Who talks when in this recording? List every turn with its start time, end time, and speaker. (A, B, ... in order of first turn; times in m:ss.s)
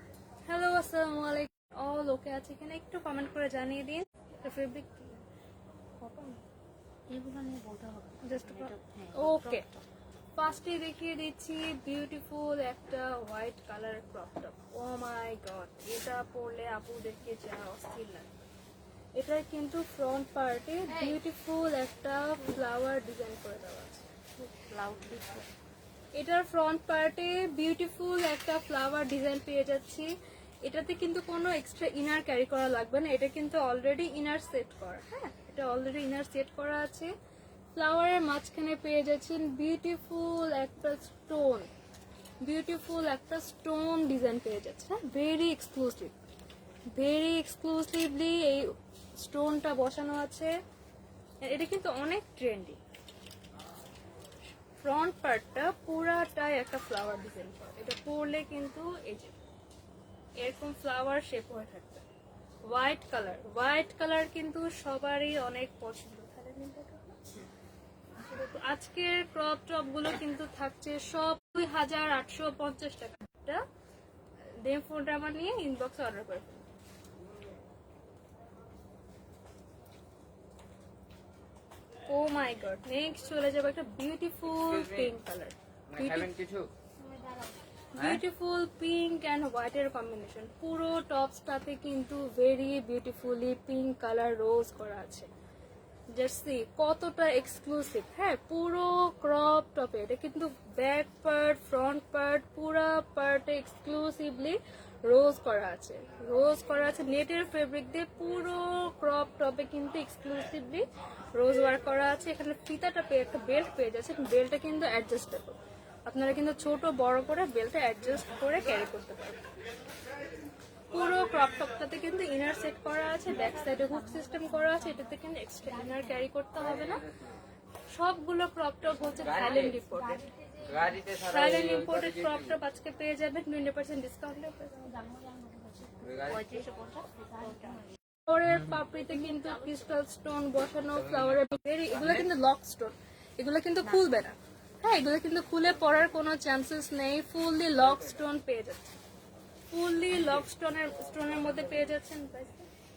0:00.5-0:05.2 A
0:06.0-0:06.4 A
0:07.1-0:09.8 B
0:08.2-0:09.6 A
0:10.4-0:18.4 A
0:19.2-0:24.0 A
0:24.4-0:25.5 B
0:26.2-0:30.1 A
0:30.6-0:37.1 A
0:37.7-0:41.7 A
0:42.4-0:46.1 A
0:46.9-0:50.6 A
0:51.4-0:52.8 A
0:54.8-0:59.4 A
1:00.4-1:02.0 A
1:02.7-1:07.2 A
1:08.2-1:13.6 A
1:14.6-1:16.7 A
1:22.1-1:26.3 A
1:24.5-1:25.1 C
1:25.9-1:26.7 C
1:27.9-1:35.3 A
1:28.0-1:28.2 C
1:36.1-1:50.8 A
1:51.4-1:59.4 A
2:00.9-2:07.0 A
2:03.3-2:04.0 B
2:06.6-2:07.0 C
2:07.9-2:10.2 A
2:09.2-2:09.8 C
2:10.6-2:12.6 C
2:11.3-2:15.1 A
2:15.3-2:18.0 B
2:16.0-2:16.6 C
2:18.2-2:28.9 A
2:21.0-2:22.2 C
2:23.8-2:24.2 B
2:29.7-2:32.7 A